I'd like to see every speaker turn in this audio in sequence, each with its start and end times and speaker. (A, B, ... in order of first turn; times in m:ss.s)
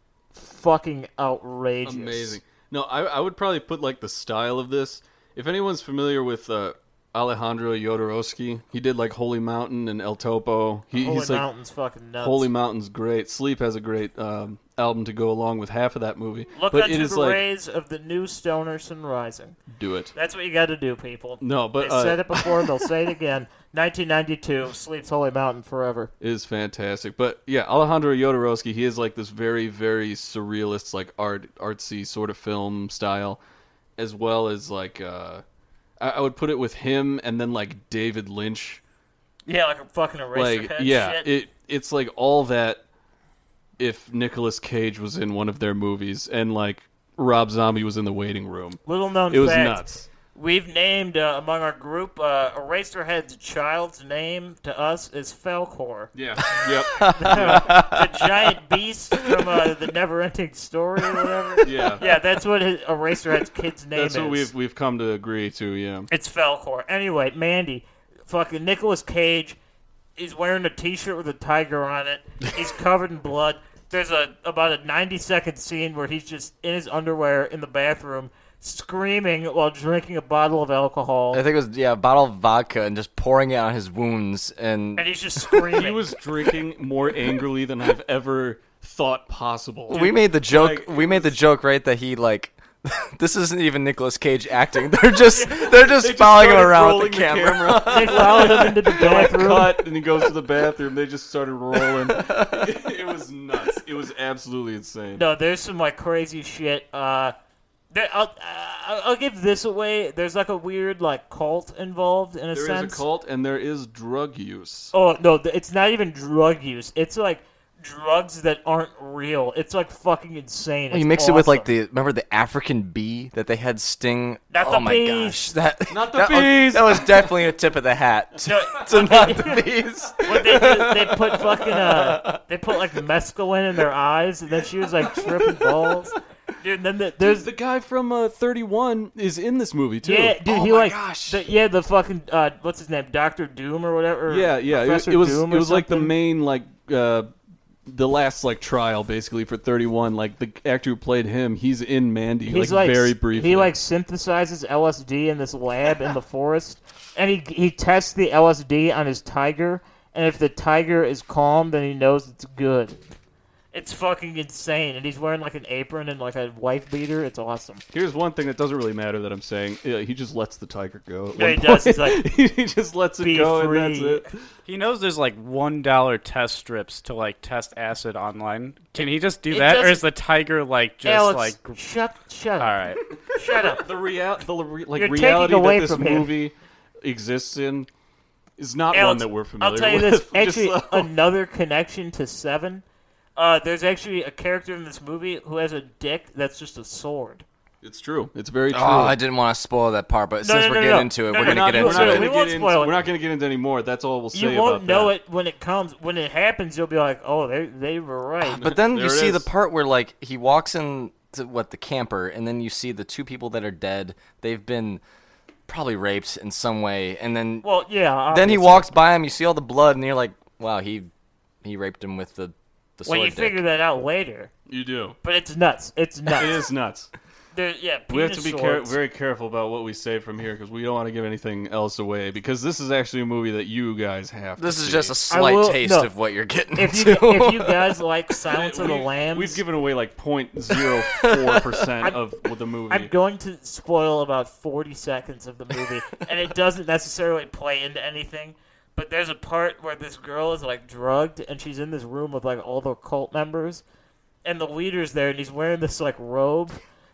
0:00.3-0:02.4 A
0:01.8-0:11.4 B
0:11.0-0:12.5 A
0:12.2-0:17.4 B
0:16.5-0:19.6 A
0:19.7-0:20.1 B
0:20.1-0:26.1 A
0:21.4-0:22.5 B
0:26.2-0:33.4 B
0:34.0-0:35.4 B
0:36.0-0:38.8 B
0:39.4-0:41.3 A
0:40.3-0:42.8 B
0:43.8-0:50.1 B
0:48.8-0:49.8 A
0:50.3-1:04.5 A
0:56.1-0:57.7 B
0:57.0-0:58.2 C
1:01.4-1:01.9 C
1:01.6-1:02.0 B
1:03.9-1:06.1 B
1:06.1-1:09.6 A
1:10.2-1:21.4 A
1:21.3-1:25.6 C
1:25.0-1:26.2 A
1:25.7-1:31.3 B
1:29.9-1:38.8 C
1:35.7-1:45.2 B
1:37.8-1:39.8 A
1:41.7-1:42.8 C
1:45.1-1:47.3 A
1:47.9-1:53.0 A
1:52.5-1:54.9 B
1:54.9-2:01.7 A
2:00.9-2:12.7 C
2:04.5-2:05.5 A
2:05.9-2:07.4 B
2:08.4-2:09.7 A
2:10.2-2:17.5 A
2:15.1-2:15.9 C
2:17.2-2:20.4 B
2:20.0-2:26.1 A
2:20.4-2:21.5 C
2:24.3-2:27.3 B
2:27.8-2:33.7 B
2:32.5-2:43.0 A
2:43.7-2:47.8 A
2:47.9-2:54.4 B
2:51.3-2:52.2 A
2:53.2-2:54.2 A
2:54.7-3:01.8 D
2:59.5-3:00.0 A
3:01.0-3:02.8 A
3:02.6-3:03.0 D
3:03.2-3:07.9 B
3:03.3-3:03.8 A
3:04.9-3:06.3 A
3:08.6-3:11.1 B
3:08.9-3:12.8 A
3:13.4-3:17.4 A
3:17.8-3:19.2 B
3:18.7-3:22.3 C
3:20.4-3:23.0 A
3:21.3-3:25.1 B
3:24.3-3:28.7 A
3:28.4-3:35.0 C
3:28.6-3:29.5 B
3:35.7-3:37.6 C
3:37.6-3:38.9 A
3:38.3-3:41.1 C
3:41.6-3:43.6 C
3:43.0-3:44.5 A
3:44.7-3:45.2 B
3:45.2-3:46.7 A
3:46.4-3:47.1 B
3:47.5-3:49.0 A
3:48.1-3:55.1 B
3:54.6-3:58.0 C
3:55.3-3:56.1 A
3:56.7-3:59.6 A
3:58.5-4:03.1 B
4:00.7-4:01.9 C
4:02.9-4:13.8 A
4:14.4-4:16.8 A